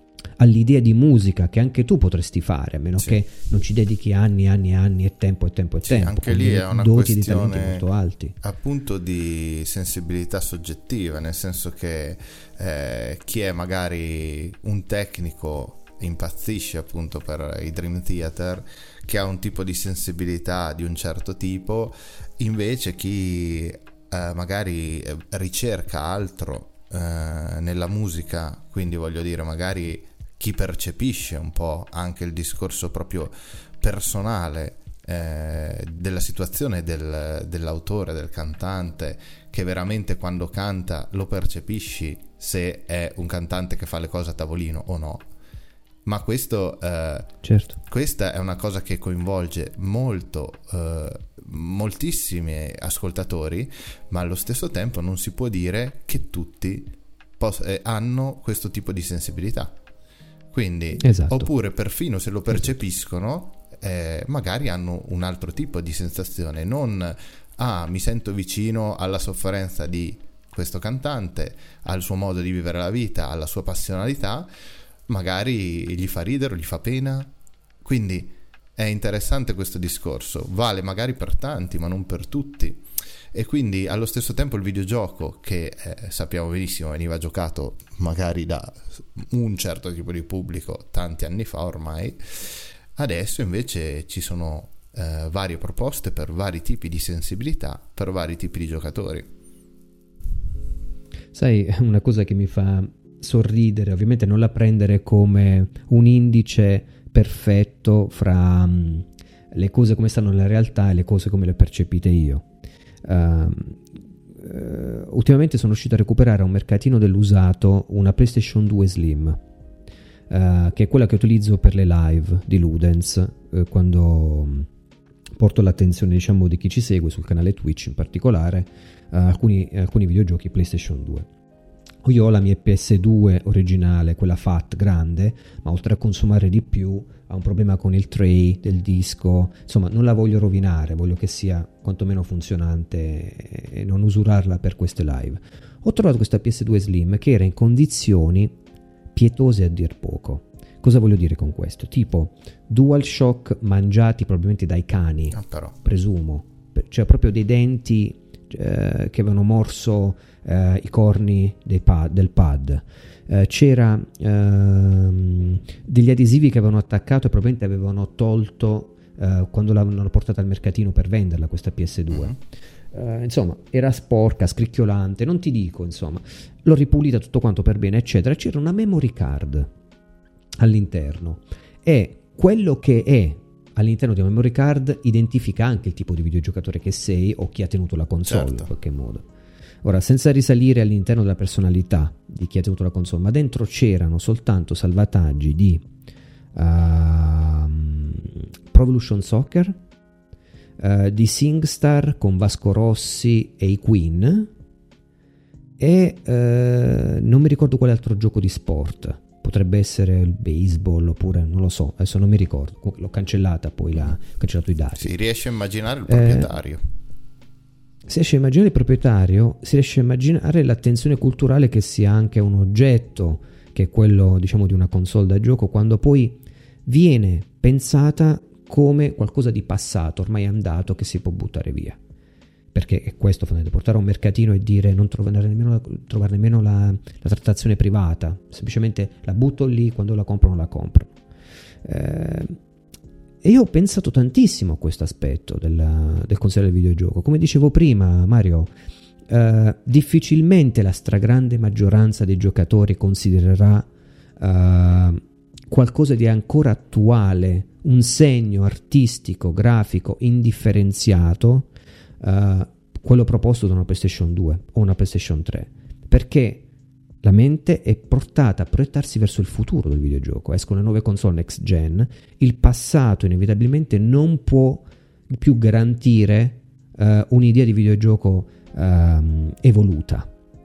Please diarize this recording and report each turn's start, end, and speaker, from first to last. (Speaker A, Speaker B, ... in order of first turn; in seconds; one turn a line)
Speaker A: 0.4-8.4
Speaker B: 5.8-7.9
Speaker B: 8.4-45.3
Speaker B: 46.1-59.8
Speaker A: 47.4-47.8
Speaker B: 60.5-74.5
Speaker A: 61.0-61.5
Speaker B: 75.1-77.3
Speaker B: 77.8-99.3
Speaker A: 101.3-112.5
Speaker A: 113.0-119.4
Speaker A: 120.3-124.7
Speaker A: 125.4-131.3
Speaker A: 132.0-148.6
Speaker A: 149.1-172.4
Speaker B: 155.3-155.8
Speaker B: 172.1-172.4
Speaker A: 172.9-179.7
Speaker A: 180.6-189.3
Speaker B: 188.3-188.7
Speaker A: 189.8-195.9
Speaker A: 196.5-199.8
Speaker A: 200.8-204.5
Speaker A: 205.8-215.1
Speaker B: 215.0-216.8
Speaker A: 216.1-216.5
Speaker A: 218.1-232.0
Speaker A: 232.7-241.1
Speaker A: 241.8-242.6
Speaker A: 243.4-248.7
Speaker A: 249.3-253.9
Speaker A: 254.4-261.7
Speaker A: 262.2-266.6
Speaker A: 267.2-280.3